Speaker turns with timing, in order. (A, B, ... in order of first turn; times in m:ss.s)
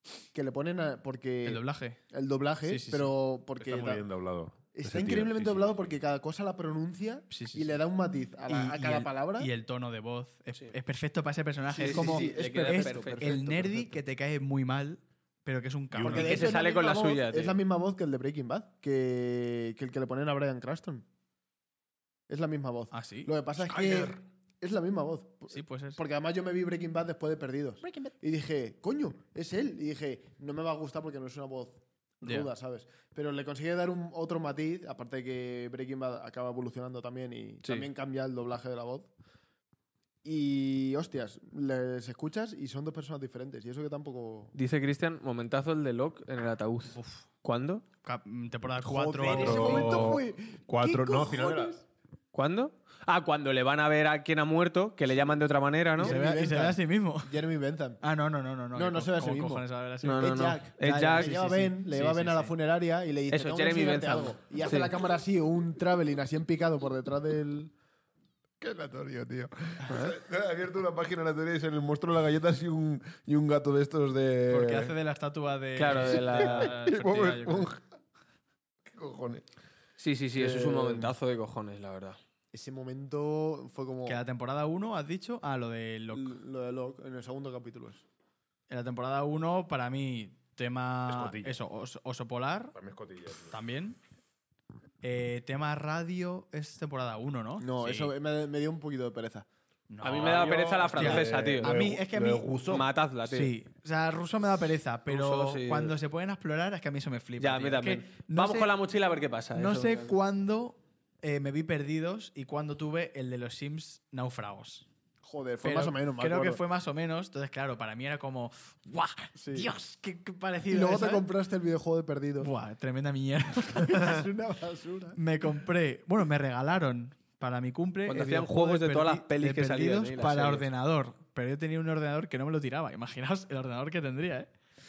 0:00.3-0:04.0 A
0:01.4-0:02.0 B
0:02.6-0:03.1 B
0:03.6-0:05.9 C
0:04.7-0:09.5 A
0:07.3-0:07.8 B
0:08.5-0:16.6 B
0:11.7-0:14.0 A
0:11.8-0:13.4 D
0:15.9-0:16.4 C
0:16.1-0:17.6 D
0:16.1-0:21.0 A
0:22.3-0:39.1 A
0:22.9-0:24.2 B
0:25.5-0:26.0 B
0:32.2-0:32.5 B
0:37.6-0:37.9 D
0:40.2-0:44.6 A
0:44.6-0:47.8 D
0:47.0-0:47.2 B
0:48.0-0:50.2 B
0:48.8-0:51.8 A
0:49.2-0:51.8 C
0:52.3-0:56.2 D
0:56.0-0:58.0 A
0:56.0-0:57.4 B
0:58.0-1:02.5 B
0:58.7-1:07.7 A
1:00.0-1:01.4 D
1:03.3-1:04.9 D
1:08.6-1:15.0 C
1:14.5-1:17.7 B
1:15.8-1:16.8 D
1:15.9-1:17.8 C
1:18.9-1:19.4 C
1:20.0-1:22.2 D
1:20.4-1:21.1 A
1:22.5-1:24.2 A
1:24.1-1:26.3 B
1:26.1-1:28.0 A
1:28.7-1:32.8 B
1:31.1-1:31.6 C
1:32.8-1:33.6 C
1:33.5-1:34.0 B
1:35.0-1:38.1 B
1:37.6-1:39.5 A
1:39.9-1:42.6 B
1:40.0-1:41.8 D
1:40.1-1:42.9 C
1:42.7-1:43.5 D
1:43.3-1:48.7 B
1:45.1-1:46.0 D
1:47.4-1:50.1 D
1:49.5-1:54.9 B
1:55.2-1:56.6 A
1:55.6-2:01.3 B
1:59.4-1:59.7 A
2:00.7-2:02.5 A
2:02.4-2:04.3 B
2:03.8-2:05.2 A
2:05.2-2:14.5 B
2:08.1-2:10.7 D